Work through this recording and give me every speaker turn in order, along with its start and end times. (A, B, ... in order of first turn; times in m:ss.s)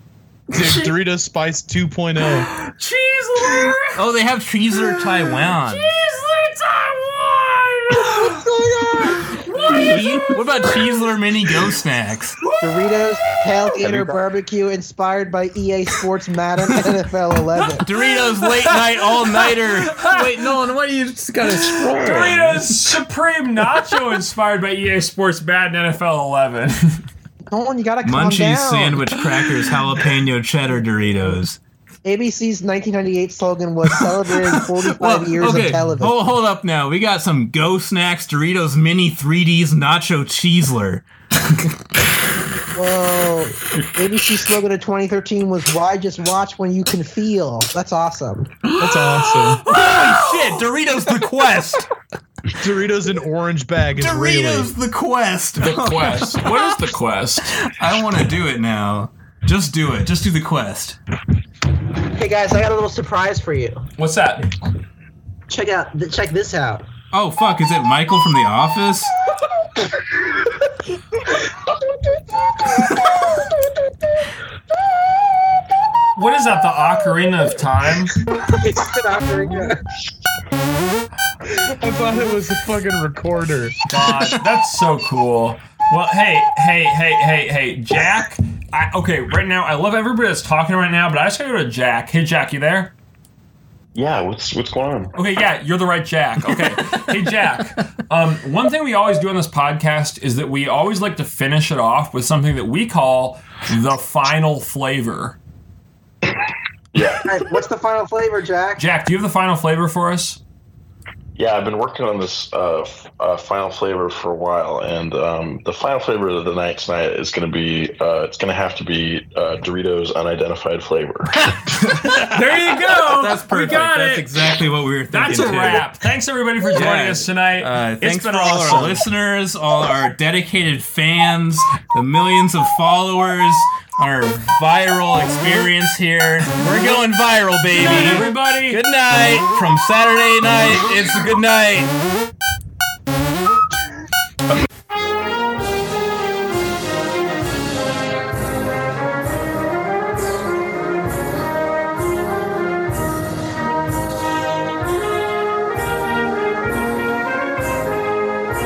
0:00.5-0:02.5 A
0:00.5-0:00.9 B
0:02.4-0:04.0 B
0:03.9-0:05.9 C
0:04.7-0:08.4 B
0:08.0-0:09.3 D
0:09.3-0:09.8 B
0:09.5-0:12.4 C
0:12.6-0:17.8 D
0:13.8-0:14.1 E
0:17.8-0:22.7 C
0:18.4-0:18.8 B
0:19.4-0:20.6 B
0:21.4-0:27.0 B
0:27.5-0:29.0 D
0:28.0-0:31.6 C
0:32.0-0:36.3 D
0:34.5-0:41.0 C
0:42.7-0:48.5 D
0:48.8-0:49.6 A
0:49.6-0:51.9 C
0:49.7-0:50.5 B
0:52.6-0:54.7 A
0:54.0-0:56.7 C
0:55.6-0:57.6 B
0:57.6-1:01.0 C
1:02.0-1:03.8 D
1:04.0-1:04.5 B
1:05.5-1:06.8 D
1:07.1-1:09.1 C
1:11.5-1:13.6 D
1:16.2-1:18.1 B
1:18.3-1:19.8 D
1:21.5-1:23.8 A
1:23.9-1:32.9 B
1:33.9-1:35.1 E
1:35.2-1:45.4 B
1:46.9-1:47.2 E
1:47.2-1:48.8 D
1:48.8-1:50.4 B
1:51.4-2:01.3 E
2:01.7-2:04.4 B
2:03.1-2:05.8 C
2:05.1-2:09.0 B
2:06.7-2:21.9 C
2:17.7-2:18.8 B